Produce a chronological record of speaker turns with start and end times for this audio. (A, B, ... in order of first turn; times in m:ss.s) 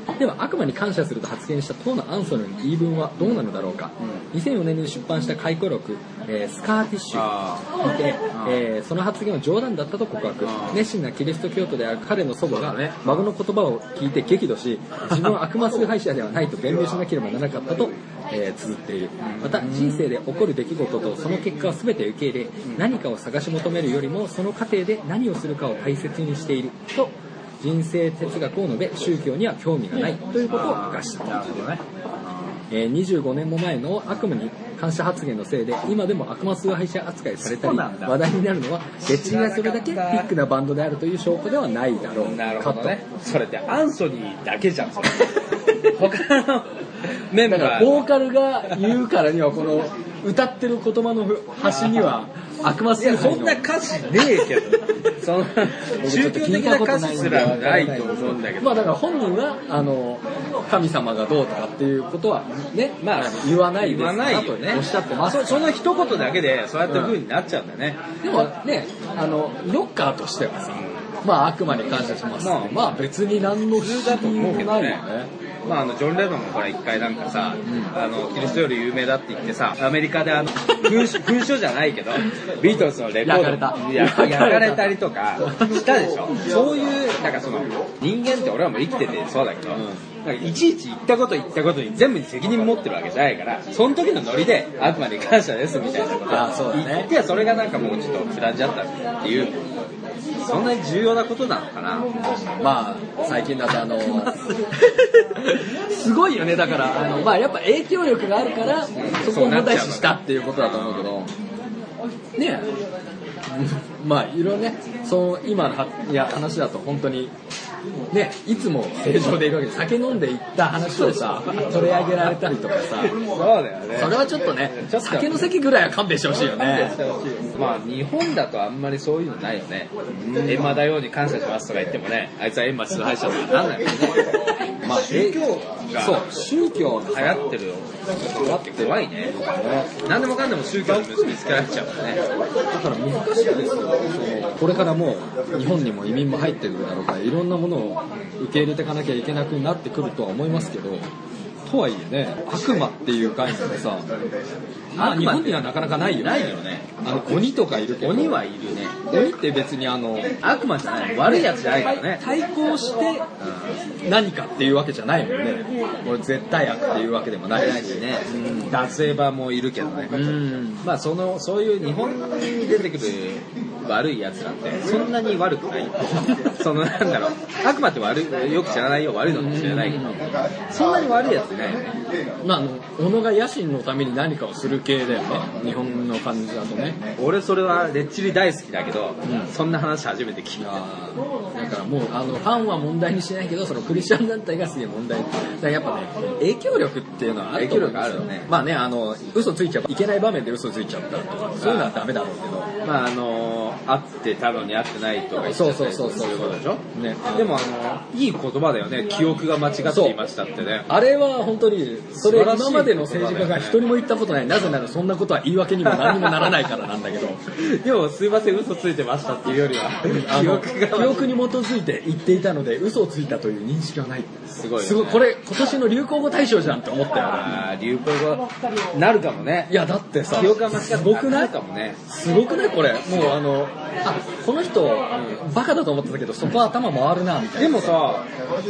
0:00.2-0:31.4 A
0:07.1-0:07.7 B
0:08.3-0:08.6 B
0:10.4-0:10.8 B
0:12.5-0:13.1 B
0:19.2-0:20.0 B
0:30.5-0:32.6 B
0:32.7-0:43.0 A
0:37.4-0:38.2 B
0:39.0-0:40.3 B
0:42.2-0:48.1 B
0:47.4-0:53.6 A
0:53.0-0:58.9 B
0:56.0-1:05.8 A
1:03.0-1:08.0 B
1:06.9-1:07.2 A
1:08.2-1:15.3 A
1:12.4-1:13.0 B
1:13.7-1:15.0 B
1:15.6-1:39.6 B
1:17.7-1:17.9 A
1:23.2-1:25.0 A
1:29.7-1:30.0 A
1:36.3-1:37.1 A
1:40.4-1:42.1 B
1:42.2-1:51.3 A
1:44.0-1:44.5 B
1:48.9-1:51.1 B
1:52.4-1:52.7 A
1:53.4-1:57.3 A
1:58.1-2:03.2 A
2:00.9-2:01.8 B
2:03.2-2:05.4 B
2:03.9-2:07.0 A
2:06.6-2:16.3 B
2:10.2-2:10.8 A
2:14.8-2:15.4 A
2:16.0-2:17.4 A
2:17.0-2:19.4 B
2:18.3-2:19.9 A
2:20.0-2:22.2 B
2:22.7-2:31.0 A
2:31.6-2:34.1 A
2:34.9-2:36.9 B
2:35.0-2:38.4 A
2:38.0-2:39.0 B
2:39.0-2:40.3 A
2:40.4-2:43.8 B
2:41.2-2:41.5 A
2:44.0-2:48.7 A
2:47.6-3:02.0 B
2:50.1-2:50.8 A
2:59.3-3:00.4 A
3:02.4-3:07.0 A
3:07.2-3:10.8 B
3:09.2-3:09.5 A
3:10.6-3:22.7 A
3:17.5-3:18.5 B
3:21.6-3:21.9 B
3:22.8-3:30.9 B
3:25.4-3:27.6 A
3:29.8-3:30.2 A
3:30.9-3:37.4 A
3:32.2-3:33.8 B
3:35.8-3:36.6 B
3:37.6-3:41.3 B
3:40.0-3:47.6 A
3:44.5-3:45.2 B
3:47.3-3:49.7 B
3:49.7-3:51.5 A
3:50.3-3:52.0 B
3:52.1-3:58.0 A
3:55.1-3:55.4 B
3:57.6-3:58.3 B